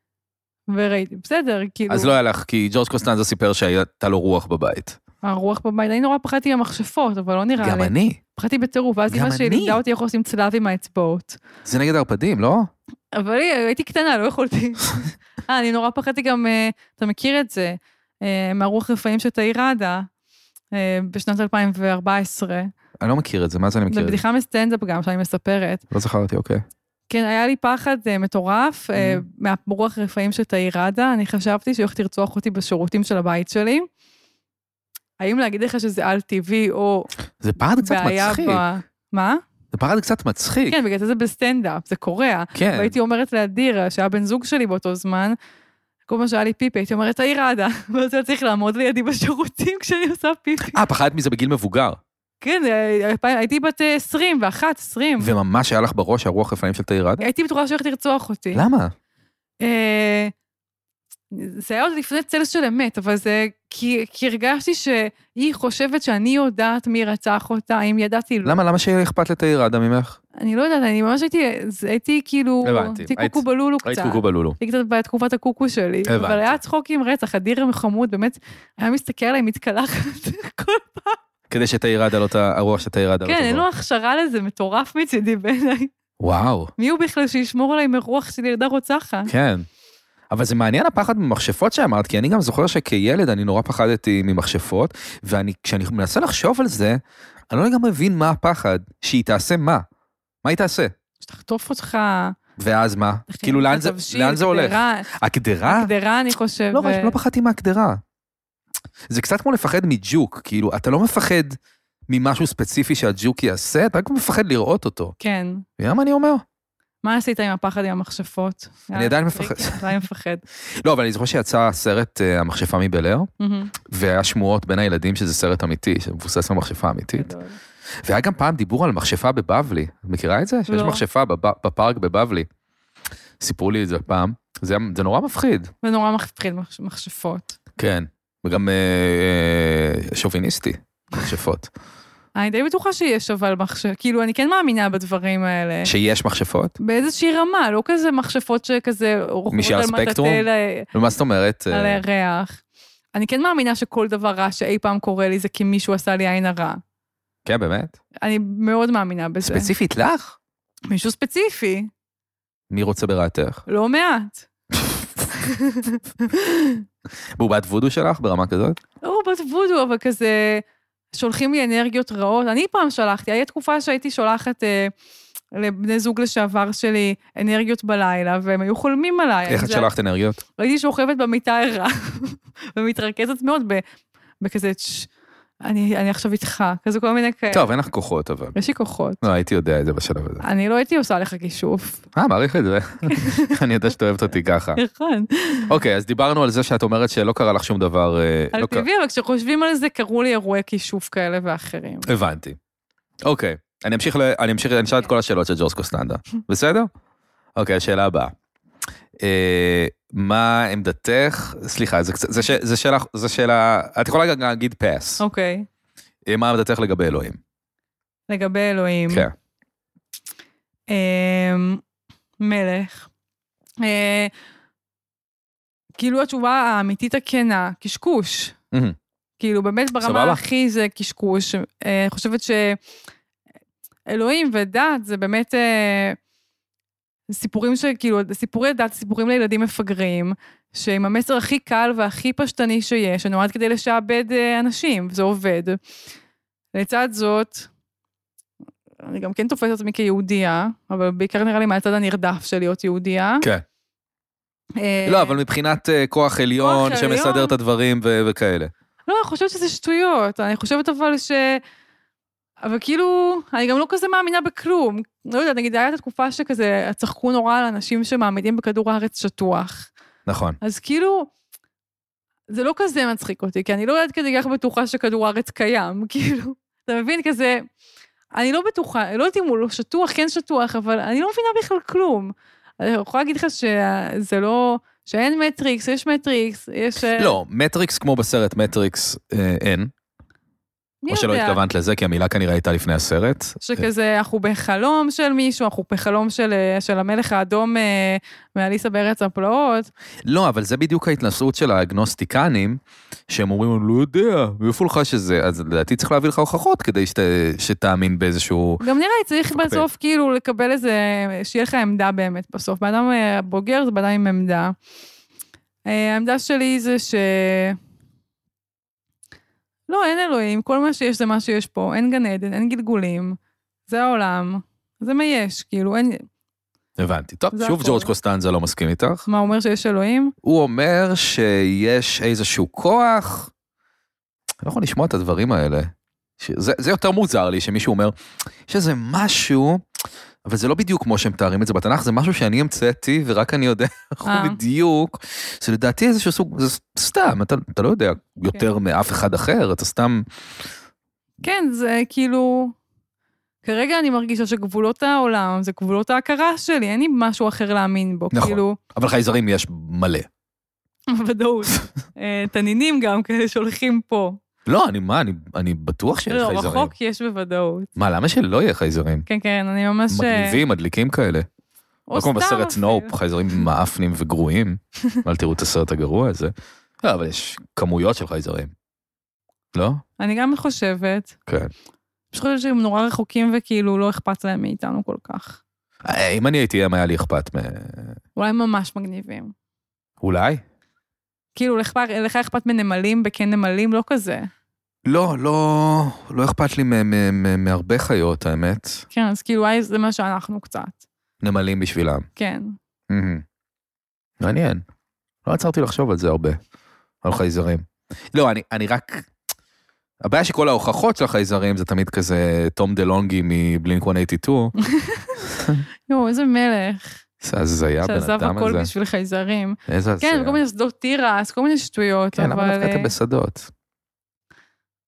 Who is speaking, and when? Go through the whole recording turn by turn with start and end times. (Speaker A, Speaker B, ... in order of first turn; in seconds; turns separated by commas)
Speaker A: 0.7-2.1, Speaker B: 1.9-5.0, Speaker A: 5.2-11.4, Speaker B: 7.6-8.2, Speaker B: 9.1-9.8, Speaker B: 11.6-12.7, Speaker A: 13.1-20.1, Speaker A: 20.7-22.7, Speaker B: 23.0-24.2, Speaker A: 23.9-25.8, Speaker B: 25.9-26.6, Speaker A: 27.1-33.9, Speaker B: 28.9-29.2, Speaker A: 35.2-37.1, Speaker B: 37.4-38.6, Speaker A: 37.8-39.4, Speaker B: 39.7-40.8, Speaker A: 40.7-45.4, Speaker B: 42.5-42.9, Speaker A: 46.1-50.8, Speaker B: 50.7-52.0, Speaker A: 52.4-55.3, Speaker B: 55.2-57.3, Speaker A: 57.2-58.6, Speaker B: 58.5-58.9, Speaker A: 59.6-60.3, Speaker A: 61.3-68.6, Speaker B: 68.4-70.2, Speaker A: 70.4-81.2, Speaker B: 72.6-74.6, Speaker B: 76.1-76.6, Speaker B: 81.5-83.7, Speaker A: 83.2-85.9, Speaker B: 86.2-86.7, Speaker A: 86.8-89.3, Speaker B: 89.3-89.7, Speaker B: 90.3-99.8, Speaker B: 100.4-100.9, Speaker A: 101.2-102.3, Speaker B: 102.6-105.9, Speaker A: 103.3-105.1, Speaker A: 105.7-107.2, Speaker B: 106.7-108.0, Speaker B: 109.1-111.5, Speaker B: 112.1-115.1, Speaker A: 115.2-115.6, Speaker B: 115.8-116.4, Speaker A: 117.0-120.4, Speaker B: 118.9-119.8, Speaker B: 120.8-123.3, Speaker A: 123.4-123.7, Speaker B: 123.9-127.3, Speaker A: 127.1-127.6, Speaker B: 128.0-132.5, Speaker A: 130.7-131.0, Speaker B: 133.4-135.7, Speaker A: 135.8-137.6, Speaker B: 137.8-141.7, Speaker A: 142.3-145.9, Speaker B: 145.8-146.8, Speaker A: 146.8-150.9, Speaker B: 149.5-152.0, Speaker A: 151.7-152.6, Speaker A: 153.1-156.8, Speaker B: 157.4-157.9, Speaker A: 158.2-159.7, Speaker B: 159.4-160.4, Speaker A: 160.9-161.9, Speaker B: 162.7-163.6, Speaker A: 163.7-164.5, Speaker A: 165.3-166.8, Speaker B: 167.3-168.8, Speaker A: 169.0-174.9, Speaker A: 175.5-179.9, Speaker B: 179.5-180.4, Speaker A: 180.6-183.8, Speaker A: 184.4-185.1, Speaker A: 185.6-187.7, Speaker B: 187.5-188.5, Speaker A: 188.5-189.2, Speaker B: 189.2-190.4, Speaker A: 190.4-192.0, Speaker B: 192.1-194.8, Speaker A: 193.1-193.6, Speaker A: 194.8-195.7, Speaker B: 195.7-198.9, Speaker A: 198.5-202.1, Speaker B: 202.1-202.6, Speaker B: 203.2-206.9, Speaker B: 207.6-208.3, Speaker B: 209.2-215.2, Speaker A: 215.2-215.7, Speaker B: 216.2-217.4, Speaker A: 218.3-219.3, Speaker A: 220.9-221.8, Speaker A: 222.4-223.1, Speaker A: 223.8-224.3, Speaker A: 226.0-228.6, Speaker B: 228.7-229.0, Speaker A: 229.4-232.8, Speaker B: 230.0-230.4, Speaker A: 234.1-236.2, Speaker A: 237.3-245.8, Speaker A: 246.7-247.7, Speaker A: 249.0-253.4, Speaker A: 254.8-255.4, Speaker B: 255.1-258.7, Speaker A: 256.6-257.5, Speaker A: 259.1-261.6, Speaker A: 262.6-269.9, Speaker B: 270.2-270.6, Speaker A: 270.6-271.3, Speaker A: 272.5-277.6, Speaker A: 278.3-287.4, Speaker B: 287.1-289.9, Speaker A: 291.0-291.6, Speaker B: 291.1-293.9, Speaker A: 293.6-299.9, Speaker B: 300.2-308.8, Speaker A: 308.8-314.7, Speaker B: 309.5-309.8, Speaker A: 315.8-317.8, Speaker A: 319.9-326.2, Speaker B: 327.0-329.2, Speaker A: 327.5-328.1, Speaker A: 329.3-330.3, Speaker B: 330.4-333.5, Speaker B: 334.6-338.1, Speaker B: 338.7-339.8, Speaker B: 340.4-350.2, Speaker A: 344.2-344.6, Speaker A: 351.4-352.7, Speaker A: 353.6-358.8, Speaker B: 358.3-360.3, Speaker A: 361.1-364.4, Speaker B: 364.6-366.9, Speaker A: 366.3-367.9, Speaker B: 367.9-369.2, Speaker A: 369.2-370.6, Speaker B: 370.1-371.5, Speaker A: 372.1-373.1, Speaker B: 372.1-378.7, Speaker B: 379.7-380.0, Speaker A: 380.2-381.4, Speaker A: 382.3-385.6, Speaker B: 386.0-388.1, Speaker A: 388.4-389.5, Speaker B: 390.2-390.6, Speaker A: 391.5-394.5, Speaker B: 395.0-399.0, Speaker A: 399.1-401.0, Speaker B: 401.4-402.2, Speaker A: 402.4-402.7, Speaker B: 403.1-403.4, Speaker B: 404.4-404.8, Speaker B: 405.4-406.6, Speaker B: 407.2-409.3, Speaker B: 410.2-414.7, Speaker A: 414.8-415.5, Speaker B: 415.5-415.8, Speaker A: 416.1-417.2, Speaker B: 417.4-418.9, Speaker A: 418.0-423.1, Speaker B: 419.9-420.6, Speaker B: 422.4-423.7